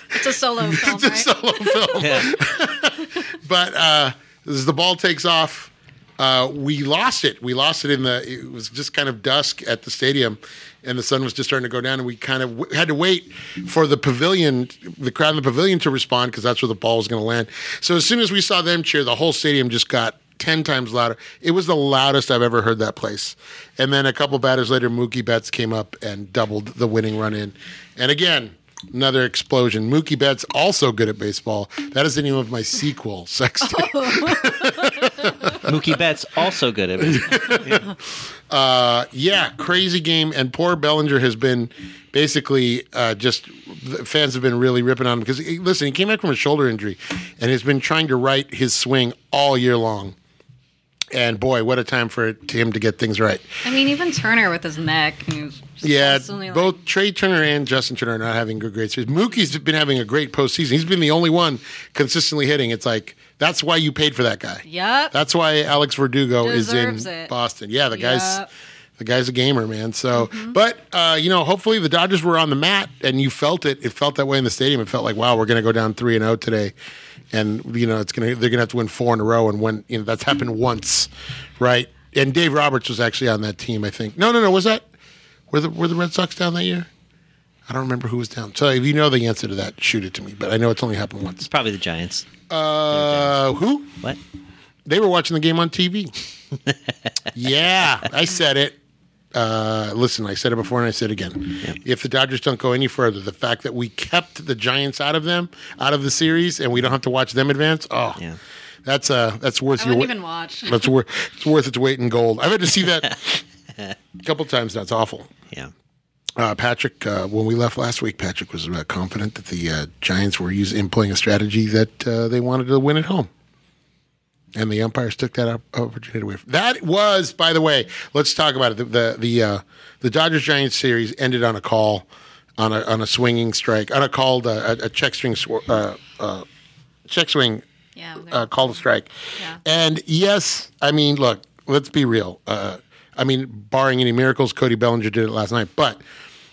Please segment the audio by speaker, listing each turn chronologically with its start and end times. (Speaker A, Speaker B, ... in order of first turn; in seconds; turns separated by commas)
Speaker A: 0.1-2.2, Speaker B: 0.6-35.9, Speaker C: 2.0-2.3, Speaker A: 33.6-35.6, Speaker C: 35.6-37.8, Speaker B: 37.0-37.9, Speaker B: 38.5-50.1, Speaker B: 51.1-53.5, Speaker A: 53.6-56.8, Speaker B: 55.8-68.4, Speaker A: 64.6-65.1, Speaker A: 66.4-67.3, Speaker A: 67.9-68.5, Speaker B: 69.0-76.7, Speaker A: 70.1-70.5, Speaker B: 77.3-84.8, Speaker B: 85.5-86.9, Speaker B: 87.7-91.5, Speaker C: 91.4-92.3, Speaker B: 92.5-94.0, Speaker C: 92.9-93.4, Speaker B: 94.8-96.1, Speaker B: 97.3-98.8, Speaker B: 99.3-108.2, Speaker B: 108.8-113.4, Speaker A: 109.8-110.8, Speaker B: 114.2-115.3, Speaker B: 116.4-123.3, Speaker B: 124.5-136.4, Speaker B: 137.1-137.6, Speaker A: 137.9-138.7, Speaker B: 138.2-146.0